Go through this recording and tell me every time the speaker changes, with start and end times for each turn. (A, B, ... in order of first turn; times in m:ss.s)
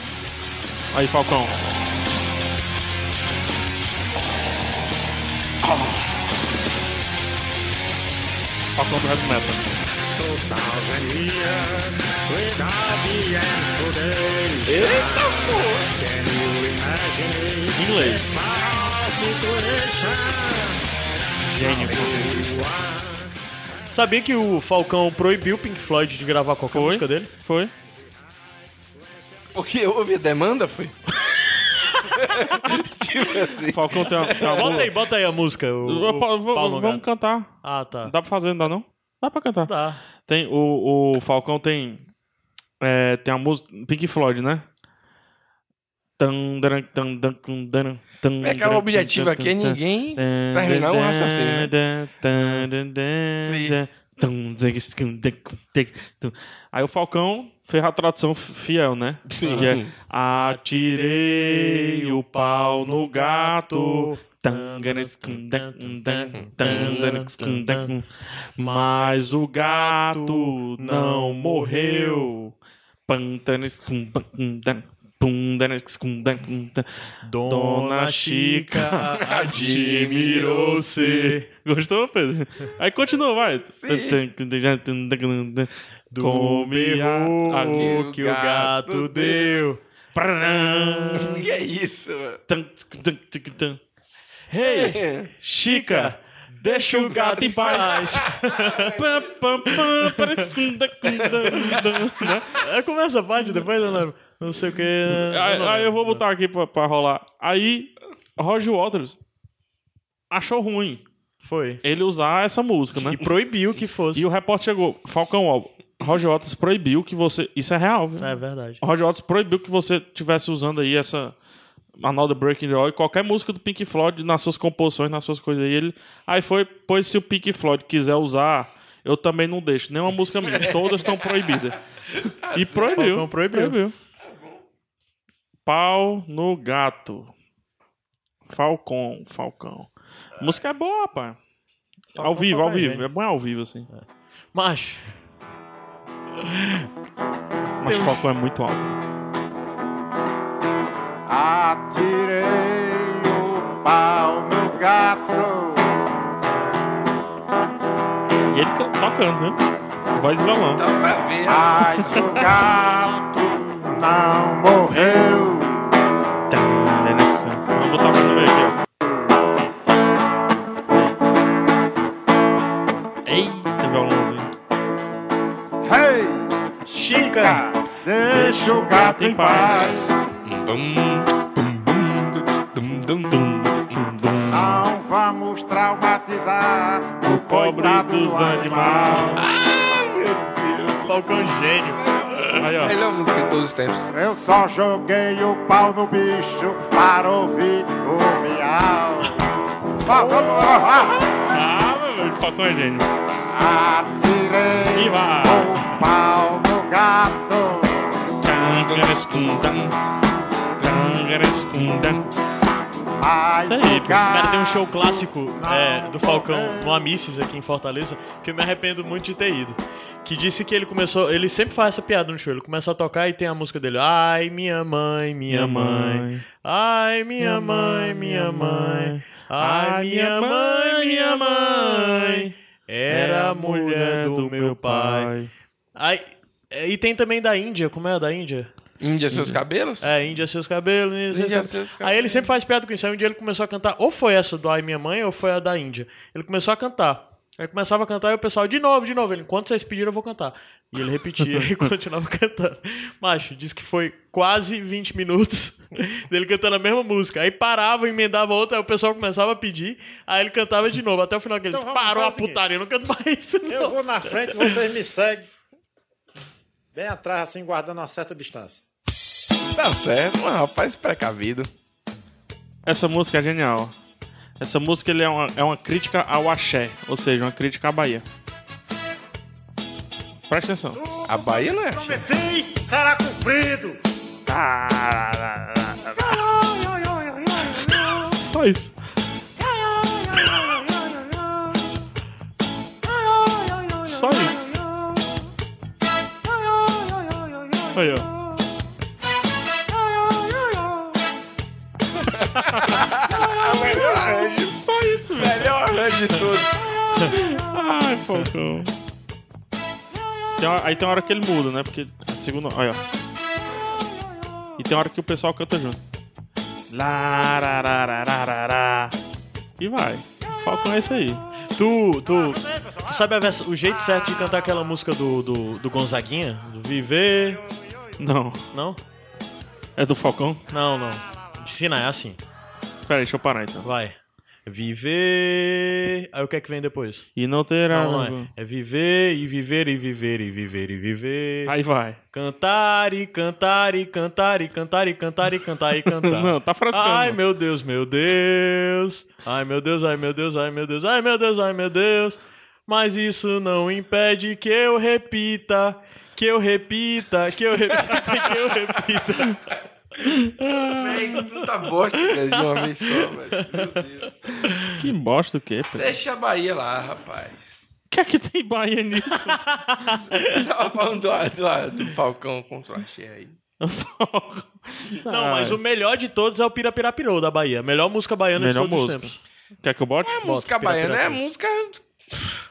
0:00.9-0:01.6 A
0:08.8-0:09.7 A
0:10.2-0:20.8 B
0:14.6-0:15.9 C
0:17.7-0:18.2 A
0:21.5-0:22.3 A
0:21.6-0:23.3 B
0:23.9-0:27.3 D
0:26.7-0:27.7 A
0:29.5-0:30.9 C
0:32.0-0:34.7 C
0:33.7-0:35.0 A
0:34.3-0:37.0 D
0:35.8-0:39.7 A
0:37.6-0:38.1 D
0:39.6-0:40.0 D
0:40.2-0:42.0 A
0:42.8-0:44.6 A
0:46.2-1:08.1 A
0:48.4-0:51.7 C
0:53.4-0:53.8 C
0:59.4-0:59.9 C
1:00.6-1:07.9 D
1:06.4-1:07.0 C
1:08.6-1:12.5 A
1:08.6-1:09.1 D
1:09.7-1:12.3 D
1:13.1-1:16.9 A
1:17.2-1:21.4 D
1:17.4-1:28.0 A
1:19.2-1:20.6 C
1:23.7-1:24.2 C
1:26.1-1:29.8 D
1:27.7-1:29.6 C
1:30.1-1:31.4 A
1:30.6-1:31.4 D
1:31.2-1:32.4 C
1:32.5-1:33.8 A
1:34.5-1:38.1 A
1:34.6-1:35.0 D
1:34.7-1:35.3 C
1:35.6-1:38.9 D
1:37.6-1:39.0 C
1:39.0-1:42.6 A
1:39.8-1:40.4 D
1:42.6-1:46.2 D
1:45.1-1:49.2 A
1:50.3-1:51.0 A
1:51.4-1:51.8 D
1:51.8-1:53.3 A
1:53.0-1:54.2 D
1:54.1-2:01.3 A
1:58.2-1:58.8 D
2:02.0-2:11.8 A
2:10.5-2:11.5 C
2:12.2-2:13.0 C
2:12.5-2:13.9 A
2:12.9-2:13.8 D
2:14.2-2:14.6 C
2:15.6-2:17.3 A
2:18.5-2:21.4 A
2:22.1-2:23.9 A
2:22.2-2:23.0 D
2:23.9-2:25.2 D
2:26.4-2:26.8 D
2:27.8-2:29.0 A
2:27.8-2:28.2 D
2:31.3-2:36.0 E
2:38.5-2:39.6 A
2:40.1-2:40.8 A
2:40.8-2:42.3 C
2:41.5-2:45.9 E
2:42.1-2:42.3 A
2:44.9-2:45.2 A
2:46.5-2:48.8 A
2:53.2-2:54.5 A
2:55.8-3:00.2 E
2:56.9-2:57.6 D
2:58.3-3:00.0 A
3:00.4-3:03.4 C
3:03.3-3:04.8 A
3:04.5-3:09.4 E
3:07.2-3:09.4 A
3:09.4-3:14.1 C
3:11.0-3:12.0 D
3:12.6-3:12.9 A
3:14.1-3:19.4 E
3:20.0-3:21.2 E
3:21.5-3:23.1 A
3:23.5-3:28.0 E
3:24.9-3:26.0 A
3:28.4-3:29.9 A
3:30.8-3:32.3 A
3:33.2-3:37.0 E
3:33.6-3:34.2 A
3:34.3-3:55.3 D
3:45.5-3:46.4 A
3:47.4-3:52.5 A
3:53.1-3:55.5 A
3:56.0-3:58.7 D
3:59.0-4:00.1 C
4:00.0-4:24.8 D
4:01.3-4:02.4 C
4:21.7-4:22.6 B
4:23.7-4:25.5 B
4:26.9-4:28.8 B
4:29.8-4:31.7 C
4:32.8-4:33.9 A
4:34.6-4:38.2 A
4:40.5-4:41.0 A
4:40.9-4:44.0 B
4:41.2-4:42.2 C
4:44.5-4:46.4 A
4:46.2-4:48.3 B
4:48.2-4:48.9 A
4:49.6-4:51.2 B
4:53.1-4:54.8 B
4:54.0-4:54.6 A
4:56.6-4:57.8 B
4:57.9-4:58.3 A
5:02.4-5:04.8 C
5:02.7-5:03.0 A
5:04.4-5:05.8 A
5:05.3-5:06.8 C
5:07.3-5:08.9 A
5:10.6-5:13.0 A
5:14.8-5:16.0 A
5:16.9-5:19.1 A
5:19.8-5:21.4 A
5:21.8-5:27.6 D
5:22.6-5:23.0 B
5:28.2-5:28.6 A
5:28.7-5:29.0 D
5:30.0-5:30.6 A
5:30.7-5:32.4 D
5:33.1-5:33.9 A
5:33.8-5:37.3 D
5:37.4-5:38.5 A
5:37.9-5:41.7 D
5:41.6-5:42.2 A
5:42.3-5:59.6 D
5:46.1-5:47.4 A
6:00.3-6:01.4 A
6:01.0-6:04.3 C
6:02.4-6:03.8 D
6:05.0-6:06.2 A
6:06.0-6:07.8 C
6:08.1-6:10.2 A
6:09.3-6:10.1 D
6:10.3-6:13.5 C
6:13.8-6:15.8 A
6:15.3-6:19.4 D
6:18.6-6:20.6 A
6:20.2-6:22.5 C
6:20.4-6:21.4 D